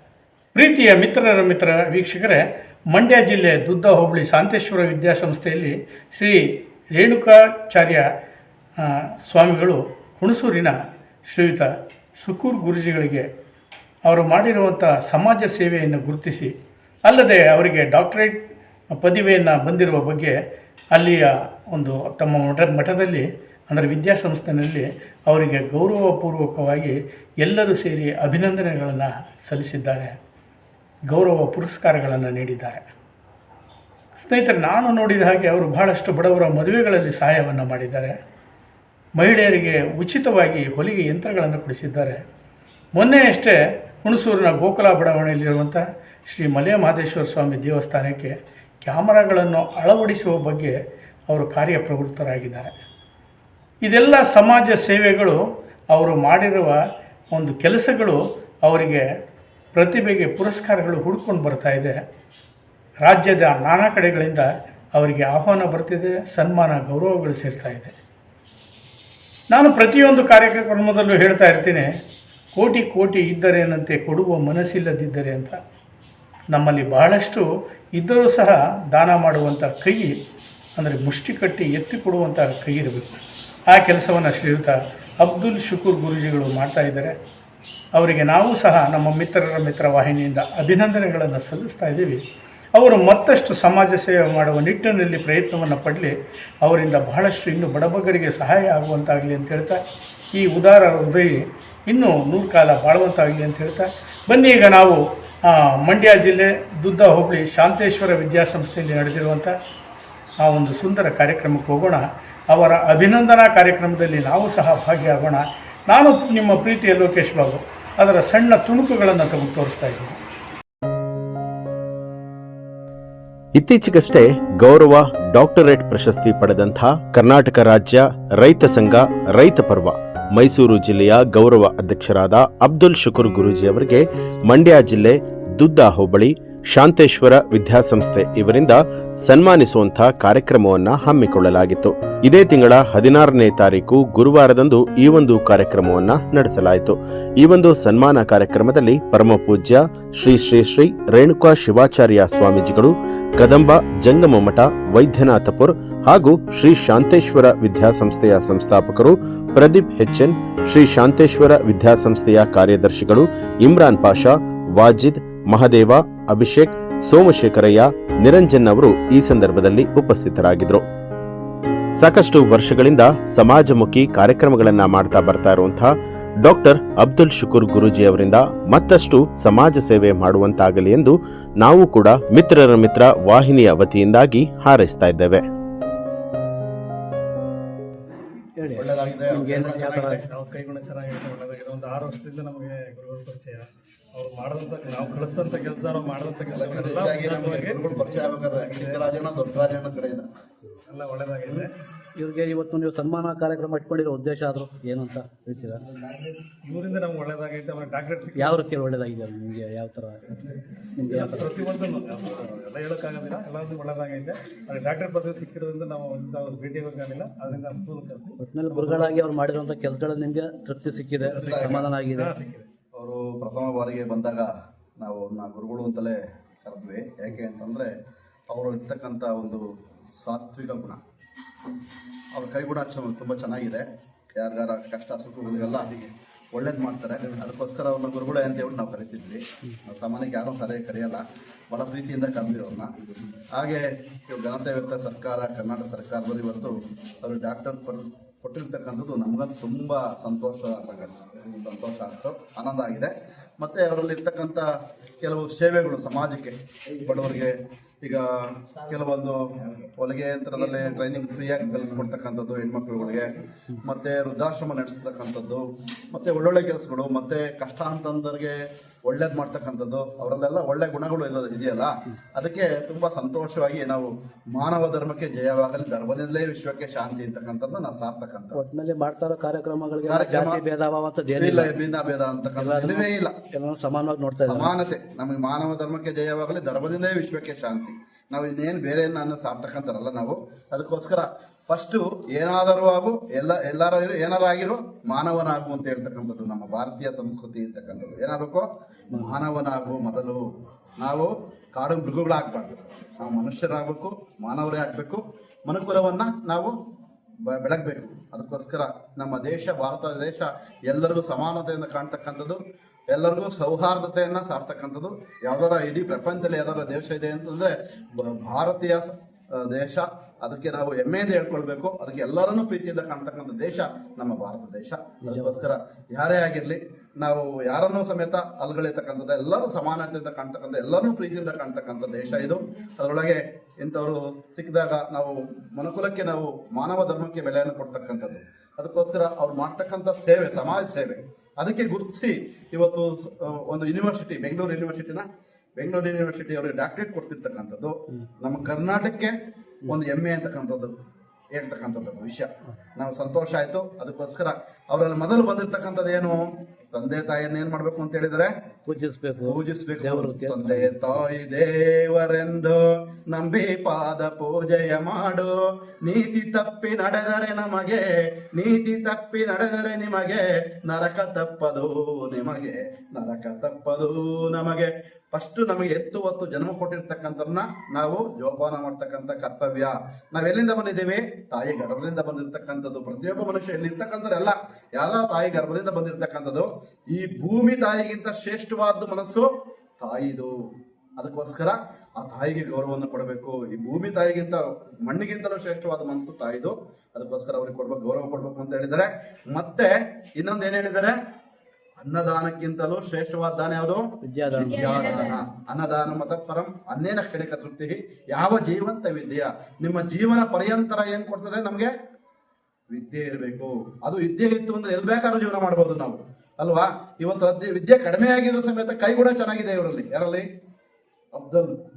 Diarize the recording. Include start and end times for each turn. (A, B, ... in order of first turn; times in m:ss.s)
0:00.5-0:02.4 A
0:02.9-0:06.3 A
0:06.9-0:08.0 A
0:08.8-0:10.7 A
0:11.3-0:11.7 A
0:12.2-0:13.2 A
0:14.0-0:16.5 A
0:17.0-0:18.4 A
0:18.9-0:20.3 A
0:20.9-0:30.1 A
0:31.1-0:32.8 A
0:34.2-0:38.1 A
0:39.2-0:42.2 A
0:42.9-0:50.7 A
0:51.3-0:52.7 A
0:53.8-0:55.4 A
0:55.9-0:56.8 A
0:57.3-0:59.0 A
0:59.7-1:02.0 A
1:03.0-1:07.9 A
1:09.5-1:11.8 A
1:12.5-1:15.6 A
1:16.5-1:17.4 A
1:18.0-1:20.1 A
1:20.8-1:23.1 A
1:23.7-1:27.1 A
1:27.9-1:32.2 A
1:32.7-1:39.8 A
1:40.3-1:41.3 A
1:41.9-1:49.5 A
1:50.4-2:00.2 A
2:03.6-2:50.8 B
2:52.0-2:55.9 B
2:56.4-3:05.4 B
3:08.6-3:10.2 C
3:08.8-3:10.2 D
3:10.2-3:18.0 E
3:16.5-3:20.3 D
3:18.6-3:19.1 E
3:20.8-3:21.7 E
3:22.2-3:25.8 C
3:26.0-3:28.6 E
3:28.3-3:30.4 C
3:30.9-3:31.5 C
3:31.0-3:39.2 E
3:38.4-3:42.3 C
3:41.2-3:42.7 E
3:41.3-3:41.9 D
3:43.0-3:47.9 D
3:48.5-3:49.6 D
3:50.2-3:51.0 D
3:52.3-3:53.8 D
3:54.4-4:02.9 D
4:03.5-4:14.7 D
4:15.2-4:38.6 D
4:38.5-4:41.8 C
4:40.0-4:40.6 D
4:41.3-4:43.3 D
4:42.6-4:44.7 C
4:44.4-5:00.4 D
5:01.0-5:06.7 D
5:07.5-5:45.3 D
5:25.2-5:25.7 C
5:45.8-5:49.3 D
5:49.8-5:50.9 D
5:51.5-5:58.5 D
5:58.8-6:01.2 C
5:59.5-6:29.5 D
6:30.0-6:30.5 D
6:31.2-6:41.1 D
6:42.0-6:51.9 D
6:44.2-6:45.0 C
6:52.9-7:00.4 D
7:01.3-7:01.8 D